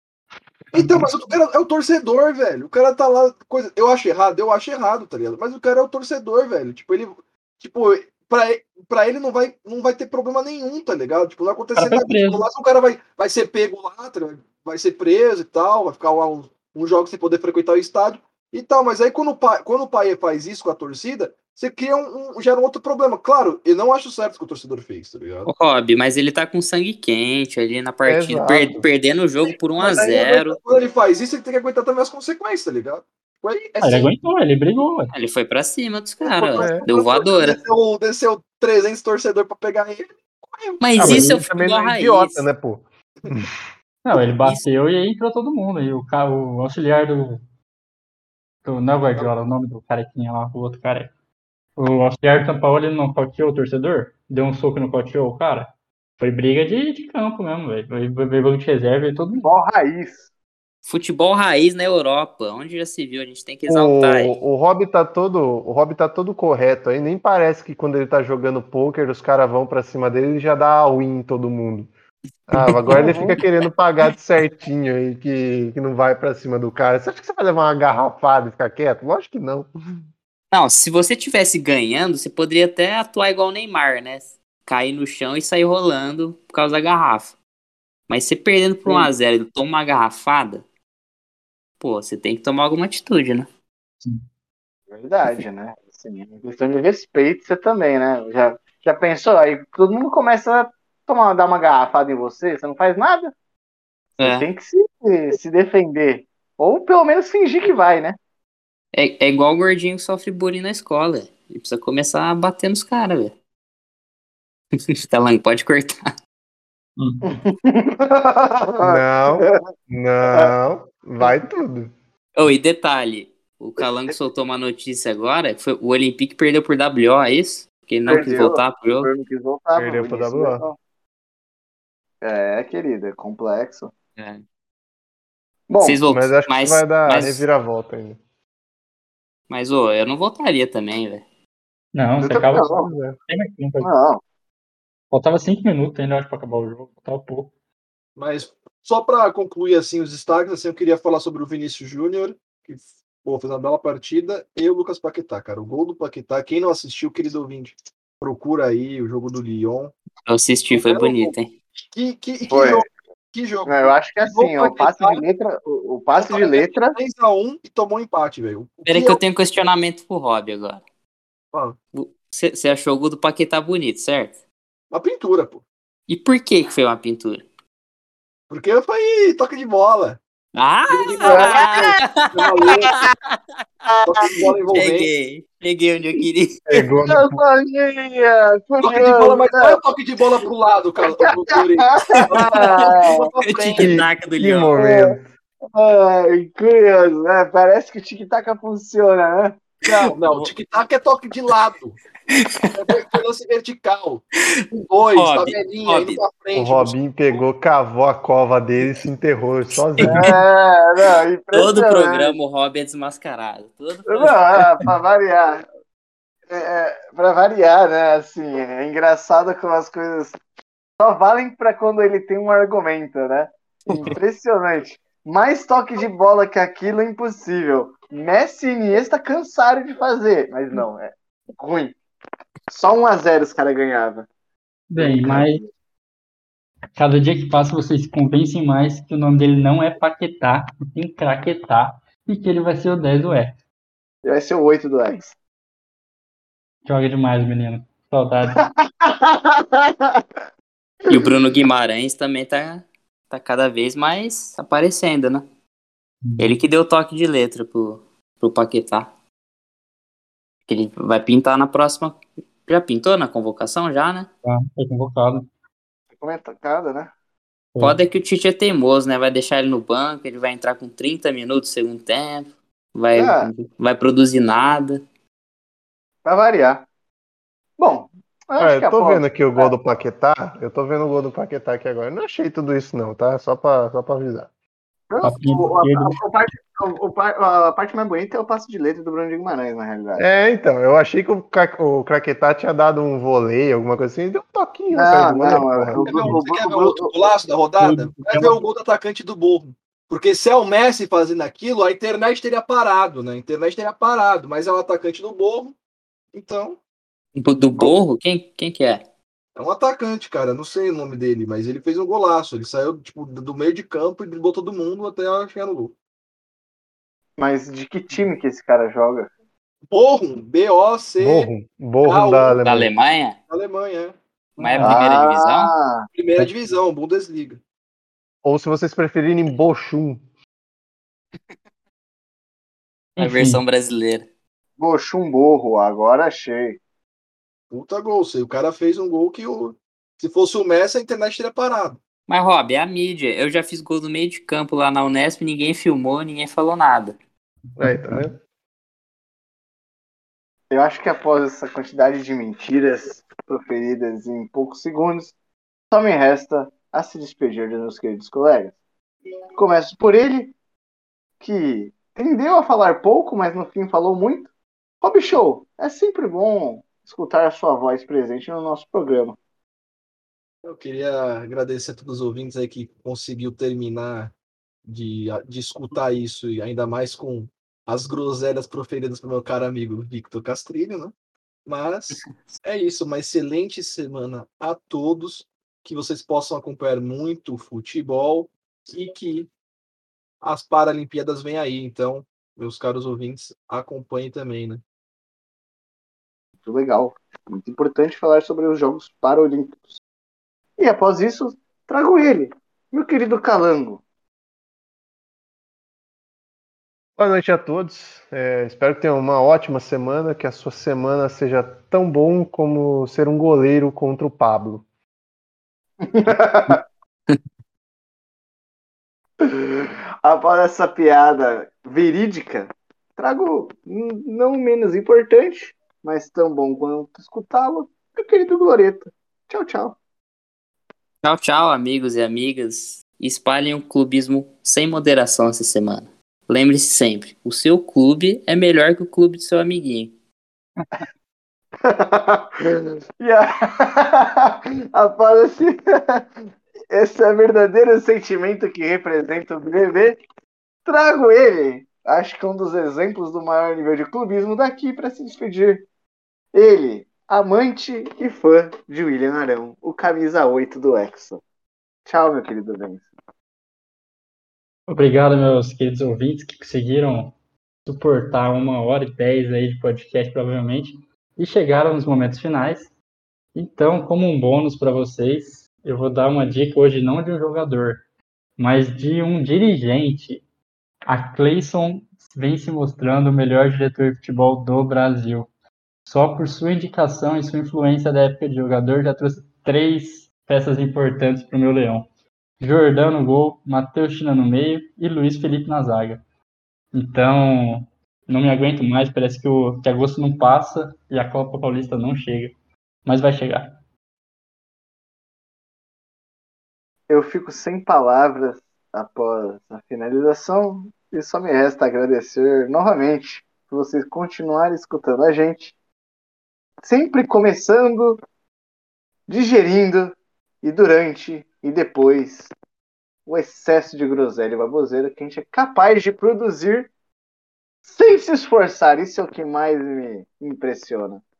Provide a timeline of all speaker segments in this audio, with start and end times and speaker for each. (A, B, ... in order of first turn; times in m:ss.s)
0:00.7-0:01.0 A
0:00.7-0:25.5 B
0:11.8-0:12.4 A
0:25.4-0:30.6 C
0:28.0-0:28.8 D
0:29.8-0:34.1 B
0:33.8-0:35.1 A
0:35.1-0:37.6 C
0:36.2-0:41.2 B
0:36.5-0:36.9 D
0:40.8-0:42.5 C
0:41.0-0:43.5 D
0:44.0-0:47.4 A
0:48.6-0:51.1 A
0:51.8-0:59.5 A
0:59.4-1:00.2 E
1:00.8-1:04.4 C
1:03.7-1:11.9 D
1:12.5-1:19.7 D
1:12.6-1:13.1 C
1:12.9-1:13.4 E
1:20.5-1:27.3 C
1:28.1-1:30.6 C
1:28.8-1:29.1 E
1:31.8-1:33.5 C
1:34.9-1:43.3 E
1:44.2-1:44.4 C
1:44.2-1:48.2 E
1:48.9-1:53.3 C
1:55.0-1:56.0 C
1:57.0-1:57.3 A
1:57.2-1:59.6 E
1:58.8-2:01.9 D
2:02.4-2:09.1 C
2:08.0-2:10.8 E
2:09.8-2:10.6 D
2:12.2-2:13.9 E
2:14.2-2:14.4 C
2:15.7-2:16.0 E
2:15.8-2:17.4 C
2:16.1-2:18.2 D
2:19.5-2:21.2 C
2:21.9-2:22.7 A
2:22.2-2:22.9 E
2:22.7-2:23.2 D
2:23.3-2:23.9 A
2:23.8-2:24.2 E
2:25.1-2:27.5 A
2:28.2-2:39.9 B
2:40.2-2:41.5 C
2:40.7-2:45.2 B
2:42.5-2:42.8 E
2:43.7-2:47.0 E
2:46.1-2:49.2 B
2:48.8-2:50.8 C
2:51.9-2:54.4 C
2:54.9-2:55.6 B
2:56.1-2:57.4 C
2:58.5-3:00.2 B
3:00.5-3:03.4 C
3:00.9-3:03.0 B
3:01.0-3:02.0 E
3:02.6-3:02.9 E
3:03.9-3:04.6 E
3:04.0-3:05.1 B
3:04.4-3:06.9 C
3:06.7-3:07.3 D
3:07.0-3:09.8 E
3:08.8-3:14.0 B
3:11.0-3:13.3 E
3:12.1-3:12.8 C
3:13.4-3:14.7 C
3:13.8-3:15.2 D
3:14.7-3:15.2 E
3:15.7-3:19.6 E
3:19.8-3:20.5 C
3:19.8-3:22.0 B
3:22.3-3:23.0 C
3:22.7-3:27.4 B
3:25.2-3:26.2 C
3:26.5-3:30.3 D
3:30.0-3:30.3 C
3:30.1-3:32.4 E
3:31.5-3:34.6 C
3:34.1-3:35.6 E
3:36.5-3:40.4 E
3:41.0-3:52.0 E
3:43.9-3:44.1 C
3:52.7-3:54.3 E
3:54.9-3:55.6 A
3:55.0-3:55.7 E
3:57.0-4:03.5 A
4:04.2-4:05.3 E
4:06.8-4:08.6 A
4:08.6-4:10.2 E
4:11.1-4:15.4 C
4:16.2-4:16.6 A
4:16.4-4:19.1 C
4:20.7-4:24.3 C
4:24.4-4:25.5 A
4:26.2-4:27.1 E
4:27.7-4:28.0 A
4:27.8-4:35.0 C
4:33.2-4:33.5 E
4:36.2-4:36.8 E
4:37.8-4:39.7 E
4:38.6-4:44.5 D
4:45.1-4:50.2 E
4:45.2-4:46.2 A
4:50.2-4:56.0 D
4:54.9-4:57.3 E
4:56.0-5:05.7 B
4:57.8-4:58.6 A
5:06.3-5:06.8 B
5:07.4-5:09.0 C
5:09.6-5:15.9 B
5:17.4-5:19.3 E
5:19.9-5:21.5 B
5:21.2-5:22.9 D
5:22.0-5:22.6 B
5:22.6-5:23.4 C
5:23.5-5:24.2 B
5:24.6-5:25.0 A
5:24.6-5:25.7 C
5:24.8-5:26.1 E
5:26.1-5:27.6 B
5:28.4-5:30.2 D
5:33.2-5:33.6 A
5:33.2-5:34.3 C
5:34.8-5:36.8 E
5:37.7-5:42.0 B
5:42.3-5:47.1 C
5:47.8-5:48.3 D
5:47.8-5:48.2 A
5:50.7-5:55.3 E
5:55.9-5:58.8 E
5:59.5-6:00.5 E
6:01.4-6:04.5 E
6:05.0-6:09.4 E
6:10.6-6:14.3 B
6:14.8-6:21.1 B
6:21.6-6:29.5 B
6:30.4-6:34.8 B
6:36.6-6:40.0 E
6:40.8-6:44.0 E
6:47.2-6:54.8 D
6:56.0-6:56.8 E
6:59.4-7:10.0 E
7:11.2-7:20.1 C
7:21.8-7:26.3 E
7:26.9-7:30.2 E
7:30.8-7:35.8 E
7:36.5-7:41.4 E
7:42.0-7:43.1 E
7:44.9-7:47.3 A
7:47.8-7:52.9 A
7:53.5-7:58.0 A
7:58.6-8:00.4 A
8:01.1-8:05.5 A
8:06.0-8:12.1 A
8:12.6-8:16.2 A
8:16.9-8:22.5 A
8:23.0-8:23.8 A
8:27.1-8:35.7 E
8:36.8-8:38.2 E
8:39.3-8:42.5 E
8:43.2-8:46.9 E
8:47.8-8:51.2 E